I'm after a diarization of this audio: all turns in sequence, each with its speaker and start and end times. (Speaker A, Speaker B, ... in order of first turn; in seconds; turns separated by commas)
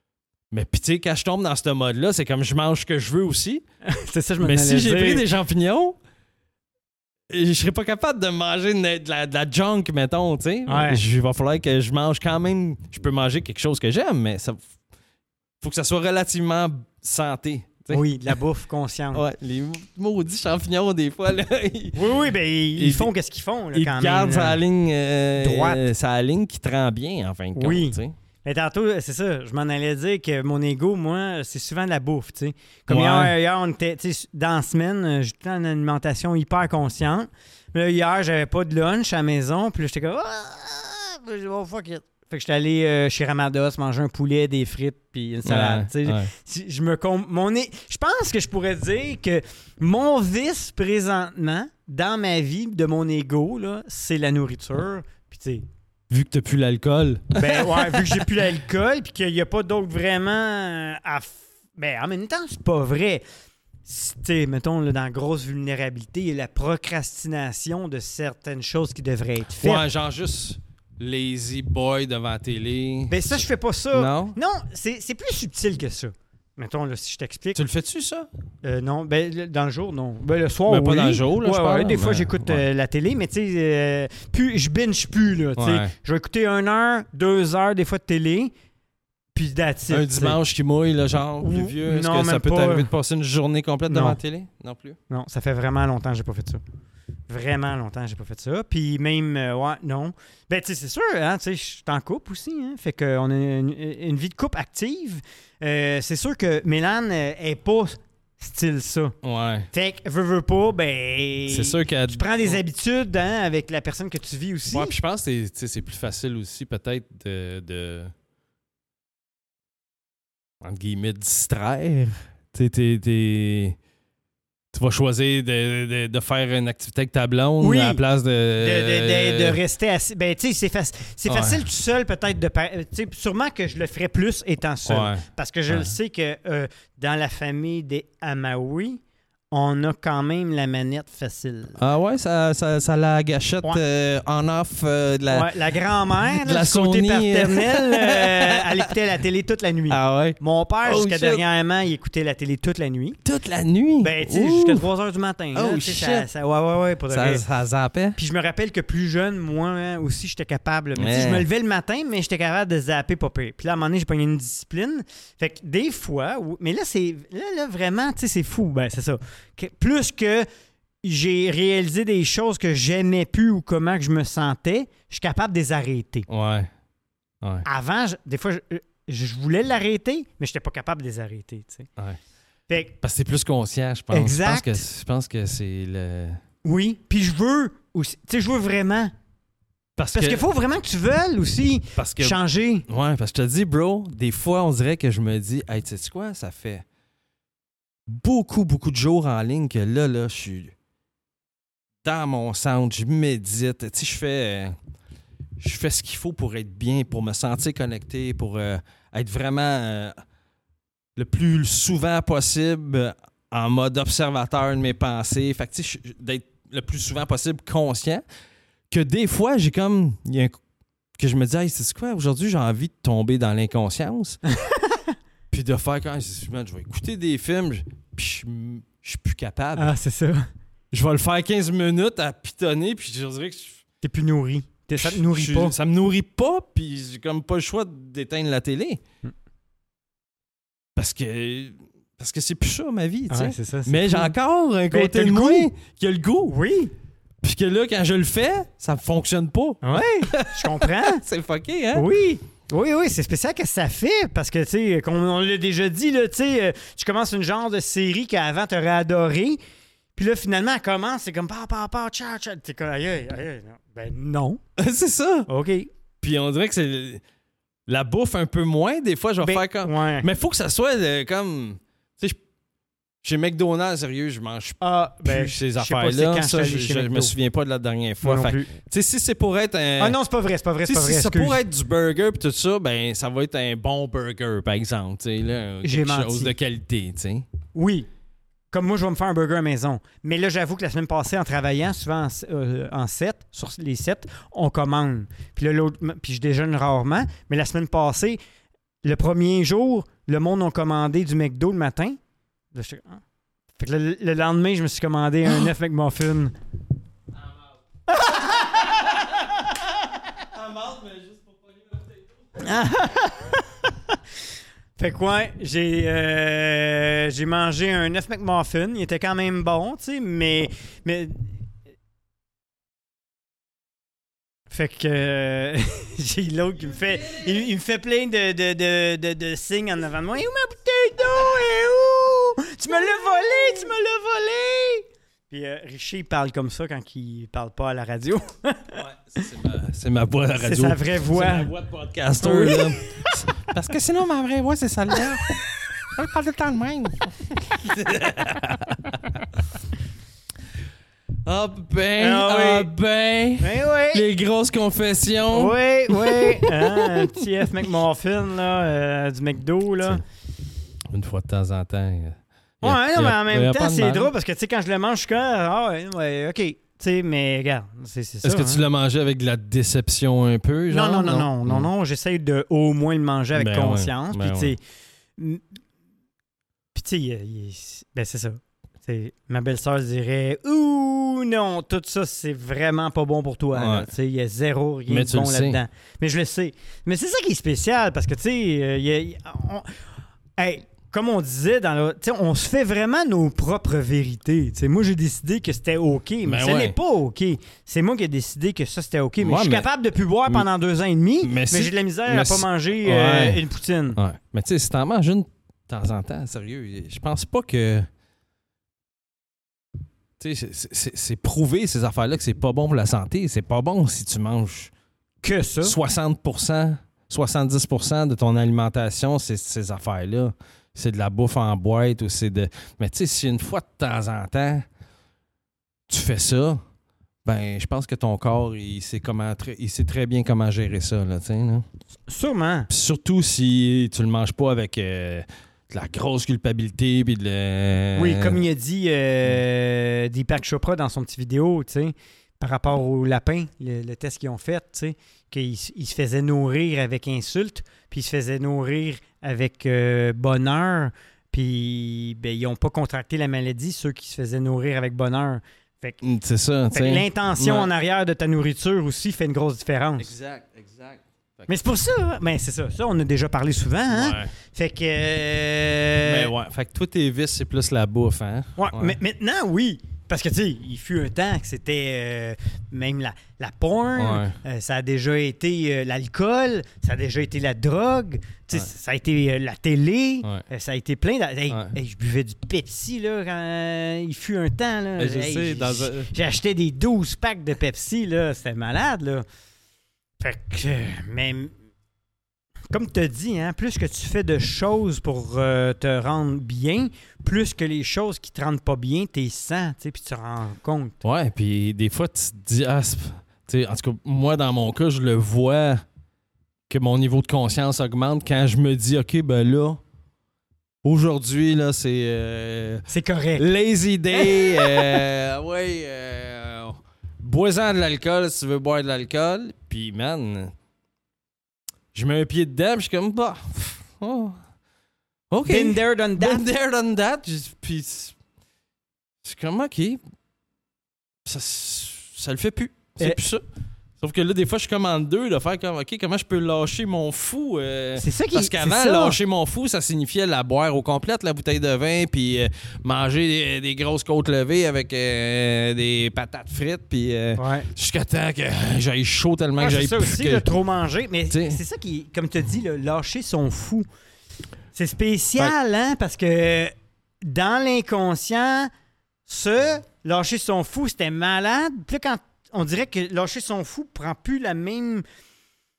Speaker A: 0.5-3.6, Speaker B: 3.8-5.2, Speaker A: 4.4-6.0, Speaker A: 7.3-14.6, Speaker B: 10.7-11.0, Speaker A: 15.6-18.0, Speaker B: 17.9-19.2, Speaker A: 19.1-22.1, Speaker B: 21.9-24.6, Speaker A: 22.8-23.1, Speaker A: 23.7-28.1, Speaker B: 25.4-25.8, Speaker B: 27.5-55.6, Speaker A: 32.9-33.3, Speaker A: 45.4-46.3, Speaker A: 56.1-58.2, Speaker B: 57.3-63.2, Speaker B: 63.8-69.8, Speaker A: 69.6-73.4, Speaker B: 73.1-77.6, Speaker A: 73.9-74.4, Speaker A: 77.5-78.3, Speaker B: 78.6-88.5, Speaker A: 80.7-82.6, Speaker A: 85.6-85.9, Speaker B: 89.3-90.4, Speaker A: 89.9-95.0, Speaker B: 91.4-92.9, Speaker B: 93.9-94.2, Speaker B: 95.1-96.6, Speaker B: 97.3-109.2, Speaker A: 109.2-109.7, Speaker B: 109.7-114.9, Speaker A: 111.5-112.6, Speaker A: 114.7-118.1, Speaker A: 120.6-123.8, Speaker A: 124.7-129.6, Speaker B: 127.6-128.0, Speaker B: 128.6-139.0, Speaker A: 131.2-131.6, Speaker A: 134.8-135.9, Speaker B: 139.5-141.8, Speaker A: 141.8-145.5, Speaker B: 145.3-153.2, Speaker A: 146.2-148.9, Speaker A: 149.9-151.4, Speaker A: 153.2-154.8, Speaker B: 154.0-157.4, Speaker A: 155.5-156.3, Speaker A: 157.1-158.2, Speaker B: 158.2-170.5, Speaker A: 160.9-161.4, Speaker B: 171.0-176.2, Speaker A: 176.3-176.7, Speaker A: 177.4-177.7, Speaker B: 177.6-181.9, Speaker B: 182.7-183.0, Speaker A: 183.0-186.4, Speaker B: 184.1-184.8, Speaker B: 186.6-189.1, Speaker A: 190.0-190.4, Speaker B: 190.1-192.8, Speaker A: 191.9-196.8, Speaker A: 198.1-200.7, Speaker A: 202.0-204.8, Speaker A: 205.6-210.2, Speaker A: 211.2-218.2, Speaker A: 218.9-220.6, Speaker A: 221.2-224.4, Speaker B: 224.5-225.1, Speaker A: 225.5-229.9, Speaker B: 229.8-230.5, Speaker A: 230.9-233.8, Speaker B: 234.0-235.7, Speaker A: 234.9-239.0, Speaker A: 240.9-246.6, Speaker B: 243.3-244.3, Speaker B: 244.9-245.7, Speaker B: 246.5-246.9, Speaker A: 247.4-252.1, Speaker B: 249.8-251.2, Speaker B: 251.9-259.6, Speaker B: 260.1-264.6, Speaker A: 264.8-265.5, Speaker B: 265.5-265.9, Speaker A: 266.2-267.2, Speaker A: 267.9-272.4, Speaker B: 269.4-270.3, Speaker A: 273.2-280.2, Speaker B: 274.8-277.3, Speaker B: 278.2-278.7, Speaker B: 280.0-281.6, Speaker A: 280.8-287.4, Speaker B: 285.8-286.5, Speaker B: 287.7-288.1, Speaker B: 288.7-298.4, Speaker B: 299.0-302.2, Speaker B: 302.7-303.2, Speaker B: 303.8-306.5, Speaker B: 308.1-309.4, Speaker A: 310.4-312.6, Speaker B: 312.6-314.2, Speaker B: 315.0-321.5, Speaker B: 324.7-339.0, Speaker A: 338.9-349.4, Speaker B: 340.6-341.7, Speaker B: 342.4-343.4, Speaker A: 351.4-357.4, Speaker B: 352.2-352.9, Speaker B: 353.6-354.2, Speaker B: 355.5-360.2, Speaker A: 361.1-364.3, Speaker B: 362.8-368.8, Speaker A: 368.4-371.9, Speaker B: 370.9-374.8, Speaker A: 373.6-374.8, Speaker B: 375.4-375.6, Speaker B: 376.9-389.9, Speaker A: 383.7-384.1, Speaker A: 385.1-385.8, Speaker B: 390.6-404.2, Speaker A: 396.4-396.9, Speaker A: 399.4-399.9, Speaker A: 401.4-403.6, Speaker A: 404.1-408.1, Speaker A: 410.4-414.9, Speaker B: 415.4-416.0, Speaker A: 415.8-424.9, Speaker A: 426.1-426.8, Speaker A: 427.4-431.8, Speaker B: 432.3-432.9, Speaker A: 432.9-438.6, Speaker B: 438.1-456.2, Speaker A: 456.2-457.9, Speaker B: 456.9-460.3, Speaker A: 460.2-461.7, Speaker B: 461.7-466.5, Speaker A: 464.1-464.5, Speaker A: 466.2-469.2, Speaker B: 468.8-489.4, Speaker A: 474.2-474.6, Speaker A: 481.7-481.9, Speaker A: 485.2-486.3, Speaker B: 490.4-491.7, Speaker B: 492.9-501.2, Speaker A: 501.2-506.0, Speaker A: 506.9-510.0, Speaker A: 511.0-520.7, Speaker B: 513.1-513.6, Speaker B: 514.3-515.2, Speaker A: 522.1-524.6, Speaker A: 525.5-528.4, Speaker B: 525.6-526.6, Speaker A: 529.4-530.2, Speaker A: 531.4-533.6, Speaker A: 534.2-550.7, Speaker B: 538.2-539.4, Speaker B: 547.6-547.9, Speaker B: 549.8-554.0, Speaker A: 551.5-551.8, Speaker B: 554.9-558.9, Speaker B: 559.5-565.2